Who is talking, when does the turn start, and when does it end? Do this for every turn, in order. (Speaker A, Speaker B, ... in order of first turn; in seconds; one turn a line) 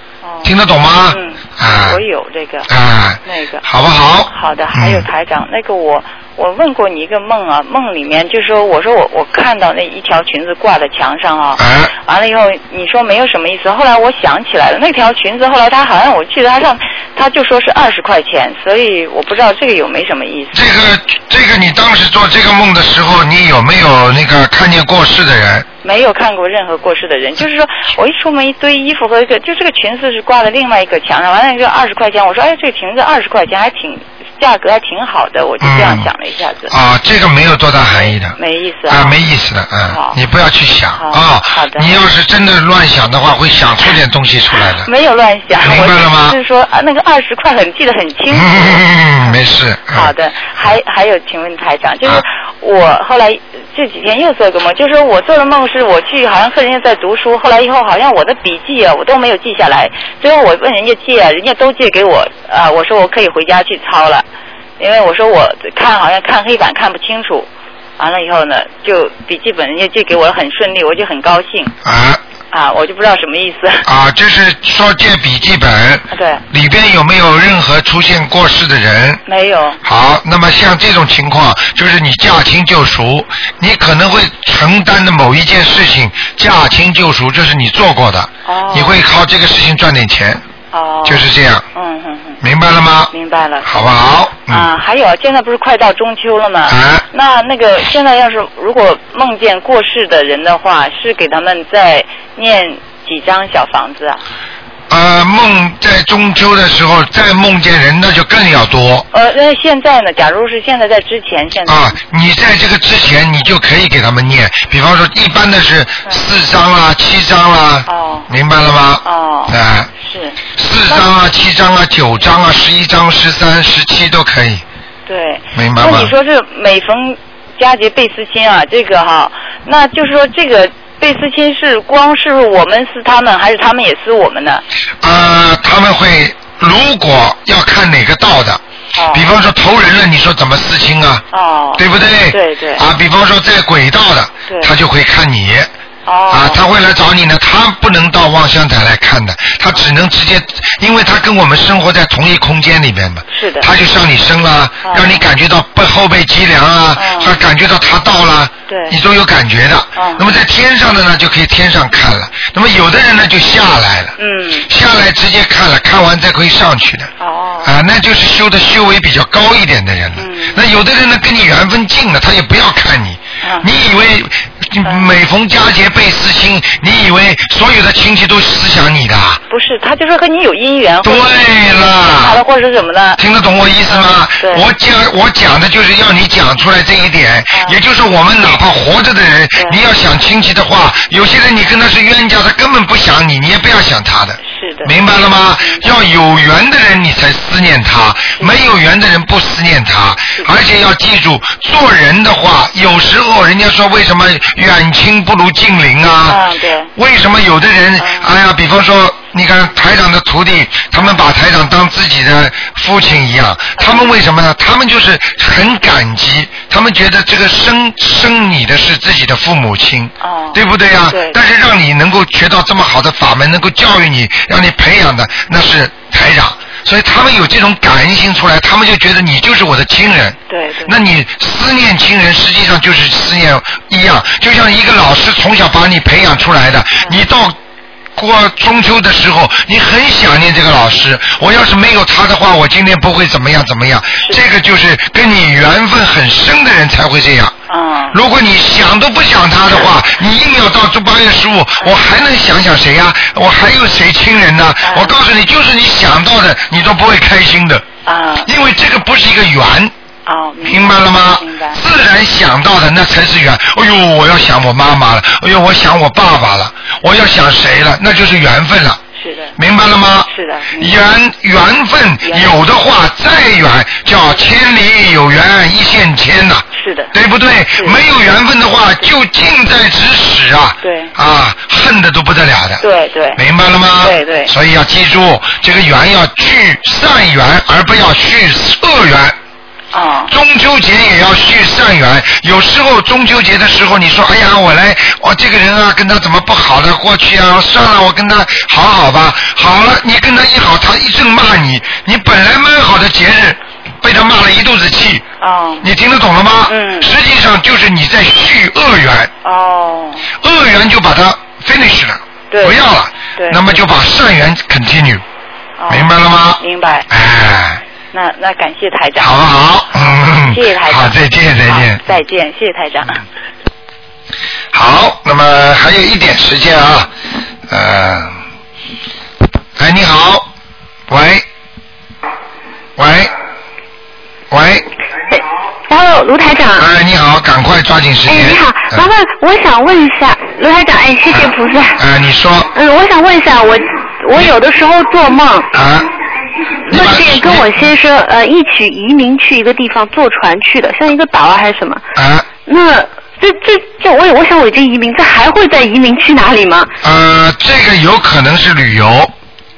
Speaker A: 0.2-0.5
Speaker B: 0.4-2.0
Speaker A: 1.1-2.7
Speaker B: 2.7-5.1
Speaker A: 3.3-3.6
Speaker A: 4.3-20.6
Speaker B: 11.6-11.9
Speaker B: 20.5-25.7
Speaker A: 25.8-36.7
Speaker B: 35.6-36.1
Speaker B: 36.7-44.9
Speaker A: 37.9-39.2
Speaker A: 39.9-40.2
Speaker A: 41.0-41.9
Speaker A: 44.8-49.4
Speaker B: 45.6-46.4
Speaker B: 48.3-50.1
Speaker A: 49.9-64.2
Speaker A: 64.8-71.7
Speaker B: 71.8-72.2
Speaker A: 72.5-73.8
Speaker B: 73.9-79.2
Speaker A: 76.1-76.4
Speaker A: 79.3-79.8
Speaker B: 79.8-90.4
Speaker A: 88.5-89.0
Speaker A: 90.7-92.4
Speaker B: 91.0-91.6
Speaker B: 92.4-94.7
Speaker A: 93.1-93.9
Speaker A: 94.5-104.2
Speaker B: 96.7-97.0
Speaker B: 104.9-109.1
Speaker A: 109.1-112.0
Speaker B: 111.7-119.9
Speaker A: 117.9-118.3
Speaker A: 119.0-121.1
Speaker B: 120.5-124.6
Speaker A: 125.0-134.6
Speaker B: 125.5-126.1
Speaker B: 135.0-138.6
Speaker A: 138.9-139.3
Speaker B: 139.1-141.2
Speaker A: 141.3-142.8
Speaker B: 141.8-145.7
Speaker A: 146.1-146.6
Speaker B: 146.3-164.1
Speaker A: 153.3-153.7
Speaker A: 154.8-155.2
Speaker A: 156.9-157.4
Speaker A: 158.7-158.9
Speaker A: 159.9-160.3
Speaker A: 164.2-164.7
Speaker B: 164.7-167.1
Speaker A: 167.2-167.7
Speaker B: 167.6-179.4
Speaker A: 170.2-170.6
Speaker A: 174.8-175.1
Speaker A: 179.5-183.2
Speaker B: 181.0-182.4
Speaker B: 183.2-206.4
Speaker A: 183.8-184.7
Speaker A: 187.5-187.8
Speaker A: 194.5-195.1
Speaker A: 195.6-195.9
Speaker A: 206.3-206.9
Speaker B: 206.9-237.6
Speaker A: 208.0-208.3
Speaker A: 213.8-214.1
Speaker A: 220.2-221.4
Speaker A: 230.5-230.9
Speaker B: 238.2-247.5
Speaker A: 247.7-248.2
Speaker B: 248.1-257.9
Speaker A: 254.8-255.2
Speaker A: 258.1-258.5
Speaker B: 258.4-259.9
Speaker A: 260.3-261.8
Speaker B: 260.6-269.0
Speaker A: 269.2-269.6
Speaker B: 269.6-282.8
Speaker A: 270.3-270.9
Speaker A: 272.2-272.6
Speaker A: 276.7-277.1
Speaker A: 277.7-278.0
Speaker A: 280.8-281.1
Speaker A: 282.8-283.4
Speaker B: 283.4-289.4
Speaker A: 284.0-284.5
Speaker A: 289.9-290.3
Speaker B: 290.3-305.2
Speaker A: 305.4-305.9
Speaker B: 305.8-309.3
Speaker A: 306.7-307.1
Speaker A: 309.4-310.3
Speaker B: 310.4-315.2
Speaker A: 312.5-312.8
Speaker A: 313.4-313.8
Speaker A: 315.8-317.1
Speaker B: 315.9-317.8
Speaker A: 318.1-319.4
Speaker B: 319.2-322.0
Speaker A: 319.9-323.2
Speaker B: 324.7-327.1
Speaker B: 327.7-328.4
Speaker B: 329.8-330.5
Speaker B: 331.1-331.4
Speaker B: 332.9-333.3
Speaker B: 334.5-334.9
Speaker C: 335.3-336.9
Speaker B: 336.8-339.1
Speaker C: 338.3-342.0
Speaker B: 341.3-342.7
Speaker C: 342.7-345.7
Speaker B: 345.7-346.1
Speaker C: 346.9-352.0
Speaker B: 346.9-347.8
Speaker B: 352.2-352.5
Speaker C: 352.7-356.9
Speaker B: 357.0-359.3